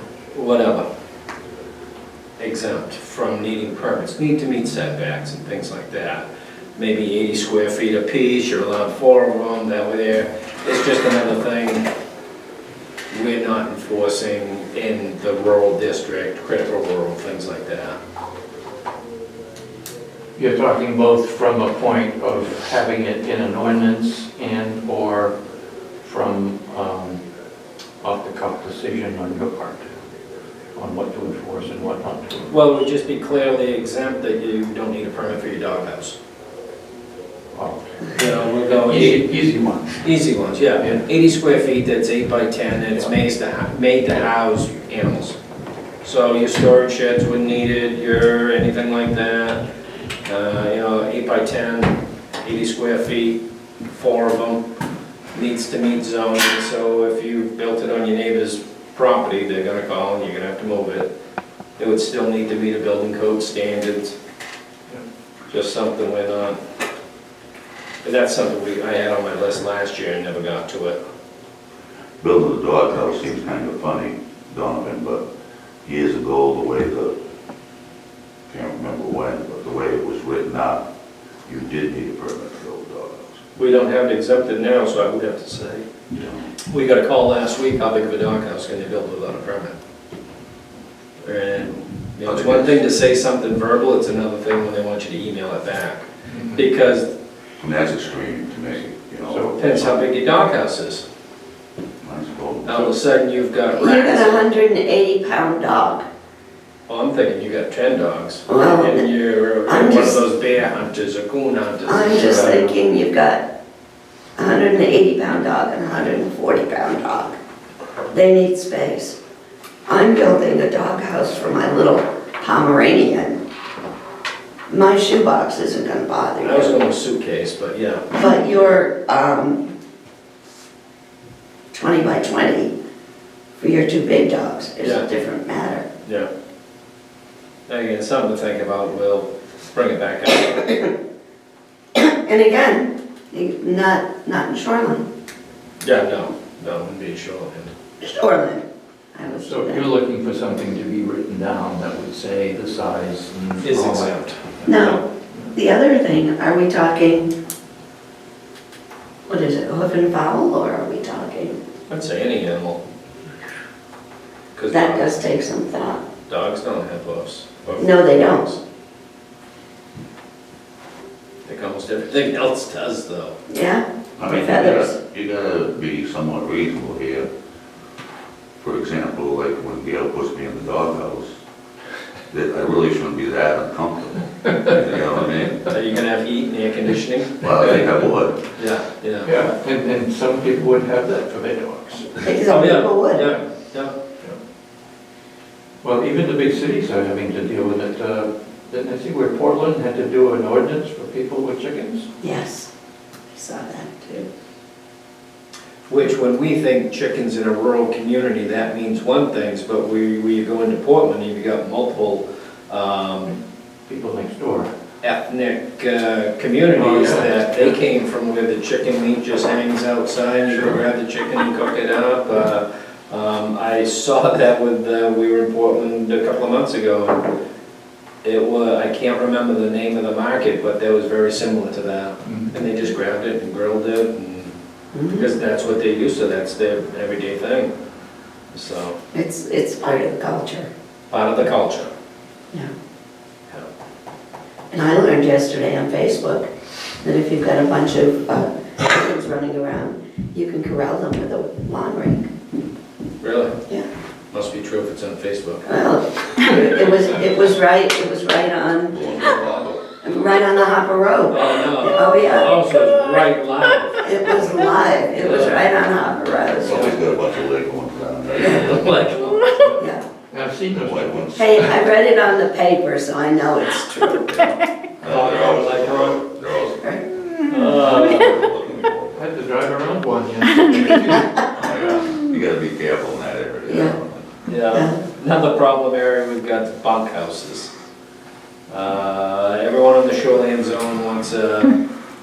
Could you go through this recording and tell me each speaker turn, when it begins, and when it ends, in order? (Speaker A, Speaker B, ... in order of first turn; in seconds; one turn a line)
Speaker A: 0.3-0.8
Speaker A: 2.4-6.2
Speaker A: 6.8-11.8
Speaker A: 13.1-18.0
Speaker B: 20.4-25.4
Speaker B: 26.0-27.2
Speaker B: 28.0-29.8
Speaker B: 30.7-32.5
Speaker A: 32.5-36.2
Speaker B: 37.5-38.2
Speaker A: 38.1-39.2
Speaker B: 38.8-40.0
Speaker A: 40.0-45.4
Speaker A: 46.0-49.6
Speaker A: 50.2-54.6
Speaker A: 55.3-61.1
Speaker A: 61.8-64.2
Speaker A: 65.5-66.6
Speaker A: 68.0-71.0
Speaker C: 72.2-75.2
Speaker C: 75.8-77.1
Speaker C: 78.5-80.8
Speaker C: 81.5-83.4
Speaker A: 83.5-85.9
Speaker A: 86.7-89.8
Speaker A: 91.2-97.1
Speaker C: 91.6-92.8
Speaker C: 97.6-100.0
Speaker B: 99.3-99.8
Speaker A: 99.5-101.0
Speaker C: 102.0-102.9
Speaker A: 102.6-104.5
Speaker D: 103.7-106.0
Speaker A: 106.9-112.7
Speaker D: 108.5-109.1
Speaker D: 109.7-110.2
Speaker D: 111.8-113.4
Speaker D: 114.4-117.4
Speaker D: 118.1-119.2
Speaker D: 119.9-123.4
Speaker D: 124.7-126.8
Speaker A: 126.4-128.1
Speaker D: 128.1-129.6
Speaker D: 131.7-132.7
Speaker D: 133.6-135.8
Speaker A: 137.7-140.8
Speaker D: 141.9-145.0
Speaker A: 145.8-147.7
Speaker D: 148.0-149.9
Speaker B: 149.4-154.2
Speaker A: 153.6-155.0
Speaker D: 154.7-155.0
Speaker D: 155.5-157.3
Speaker D: 159.3-161.6
Speaker A: 161.9-162.8
Speaker A: 164.5-165.2
Speaker D: 164.7-166.0
Speaker A: 166.3-168.6
Speaker D: 167.8-168.5
Speaker A: 171.4-173.3
Speaker D: 173.5-174.9
Speaker C: 174.2-177.3
Speaker C: 178.6-181.3
Speaker C: 182.3-185.6
Speaker A: 185.6-187.4
Speaker C: 187.4-188.4
Speaker A: 188.6-189.3
Speaker B: 189.2-192.1
Speaker D: 192.2-193.3
Speaker A: 192.4-193.9
Speaker B: 195.8-202.1
Speaker D: 202.2-202.7
Speaker D: 203.3-204.3
Speaker A: 205.9-213.3
Speaker B: 213.9-214.7
Speaker A: 215.0-227.2
Speaker B: 216.8-217.7
Speaker B: 220.5-220.8
Speaker A: 228.2-234.5
Speaker B: 232.2-232.5
Speaker D: 234.9-235.3
Speaker A: 235.1-237.7
Speaker A: 238.5-238.9
Speaker D: 239.1-240.7
Speaker A: 241.1-241.9
Speaker D: 244.7-246.5
Speaker D: 247.0-252.3
Speaker A: 253.2-253.6
Speaker A: 254.3-255.7
Speaker D: 255.7-259.0
Speaker C: 258.9-259.9
Speaker D: 260.0-262.6
Speaker A: 261.3-264.6
Speaker D: 264.0-267.0
Speaker A: 265.2-265.7
Speaker C: 266.6-269.0
Speaker A: 268.4-269.8
Speaker D: 269.8-270.0
Speaker B: 270.3-271.2
Speaker C: 270.7-271.7
Speaker D: 271.4-274.6
Speaker C: 275.0-279.2
Speaker A: 275.0-276.2
Speaker A: 277.5-278.4
Speaker B: 277.5-278.2
Speaker B: 279.1-281.4
Speaker C: 281.4-284.3
Speaker D: 283.7-283.9
Speaker A: 284.4-287.7
Speaker D: 284.7-285.0
Speaker A: 288.7-291.8